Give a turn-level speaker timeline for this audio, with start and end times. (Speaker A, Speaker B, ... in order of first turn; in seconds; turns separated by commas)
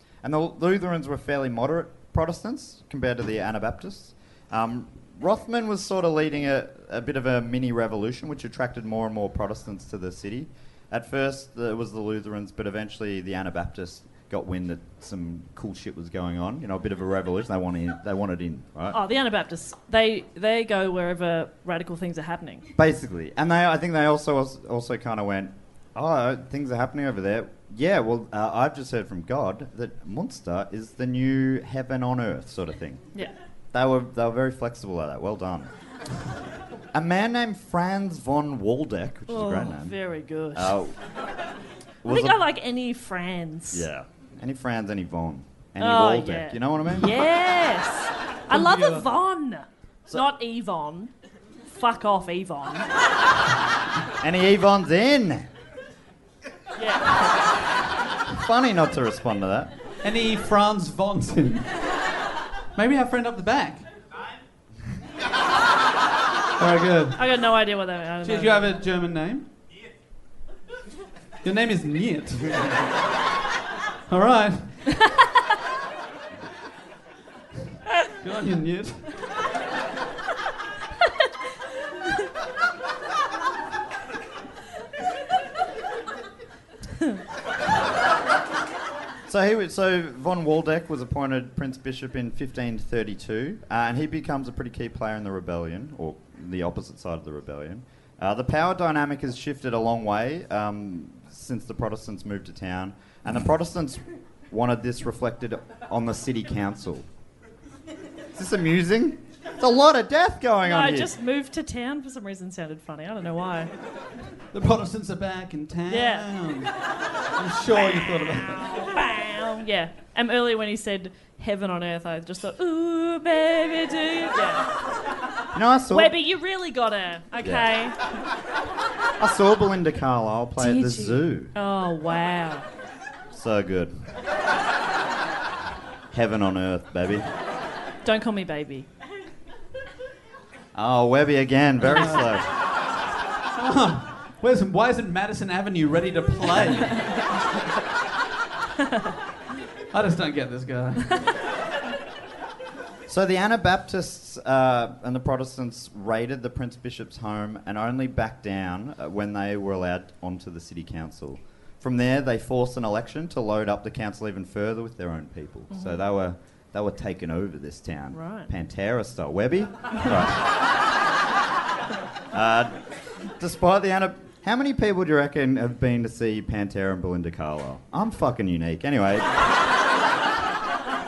Speaker A: 0.2-19.0, Speaker B: 18.9-22.7, Speaker A: 22.8-33.1, Speaker A: 33.7-35.7, Speaker A: 36.9-40.0, Speaker B: 39.3-40.8, Speaker A: 40.5-41.0, Speaker A: 42.0-42.4, Speaker B: 42.1-43.9, Speaker A: 43.7-47.2, Speaker B: 45.8-51.1, Speaker C: 48.5-49.1, Speaker B: 51.7-52.9, Speaker A: 54.2-55.5, Speaker B: 56.8-57.4, Speaker A: 58.3-59.7, Speaker C: 60.0-61.7, Speaker C: 62.8-63.9, Speaker C: 66.6-67.2, Speaker B: 67.2-68.8, Speaker C: 68.2-69.5, Speaker C: 71.4-72.9, Speaker C: 74.1-74.8, Speaker C: 78.2-79.1, Speaker A: 89.3-107.1, Speaker A: 108.3-111.1, Speaker B: 110.6-113.7, Speaker C: 114.5-116.7, Speaker B: 115.9-116.3, Speaker C: 117.4-118.7, Speaker B: 118.0-124.7, Speaker A: 125.5-126.2, Speaker B: 125.9-128.1, Speaker A: 127.4-127.7, Speaker A: 129.2-131.5, Speaker B: 130.6-132.7, Speaker A: 133.3-133.9, Speaker A: 136.1-137.3, Speaker B: 138.1-138.9, Speaker A: 140.8-142.5, Speaker C: 141.8-142.3, Speaker C: 143.6-147.2, Speaker B: 148.8-149.1, Speaker C: 149.9-151.2, Speaker A: 153.1-170.4, Speaker B: 165.7-166.0, Speaker B: 168.1-168.5, Speaker A: 172.3-172.8, Speaker A: 173.4-179.3